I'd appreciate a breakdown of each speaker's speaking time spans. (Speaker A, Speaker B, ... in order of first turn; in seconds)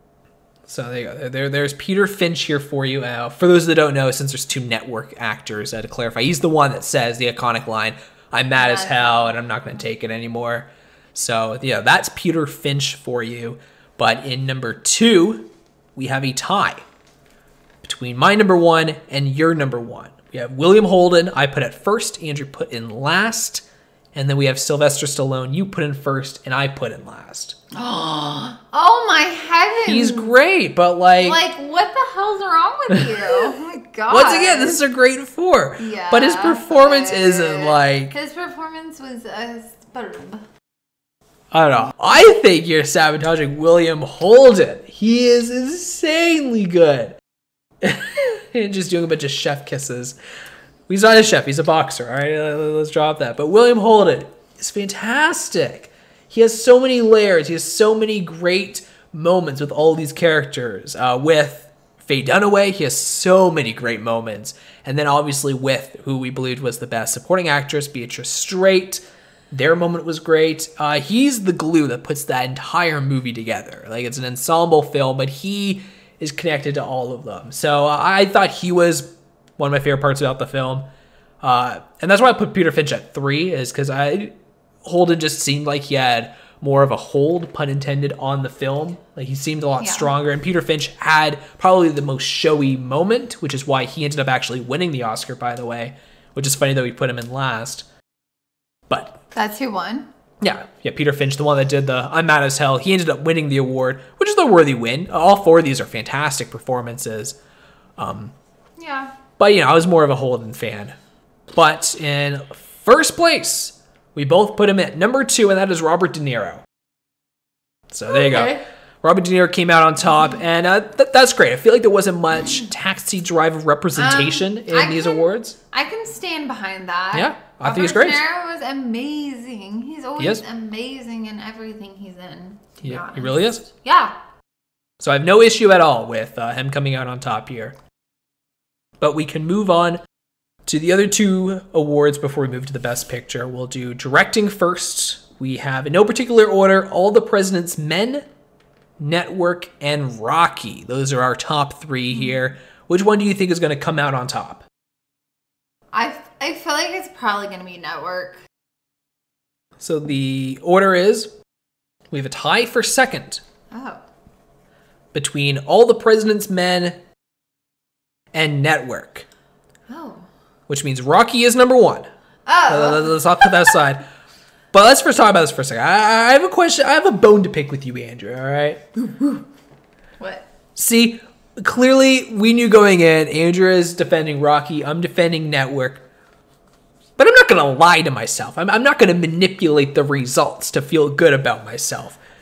Speaker A: 0.7-16.8, 17.8-27.6, 29.8-31.4, 32.9-33.5, 34.1-38.1, 41.5-47.2, 47.8-50.2, 50.9-80.8, 81.4-97.8, 98.9-99.2, 100.4-107.4, 108.0-108.3, 109.4-111.0, 111.5-116.6, 117.9-125.5, 127.1-128.2, 130.2-130.4, 132.8-133.6, 135.0-137.8, 139.0-140.0, 140.6-148.3, 149.0-154.7, 159.8-161.3, 162.1-163.4, 165.1-167.0, 168.3-169.2, 170.7-172.1, 172.7-174.1, 174.7-179.4, 180.8-186.0, 187.2-192.2
Speaker B: 8.6-9.4, 27.7-30.3, 31.2-34.8, 35.8-40.5, 89.8-90.1, 99.3-100.1, 108.8-109.1, 118.1-118.6, 123.9-134.1, 155.9-158.4, 163.7-164.0, 169.9-170.3, 172.4-173.7, 180.2-180.4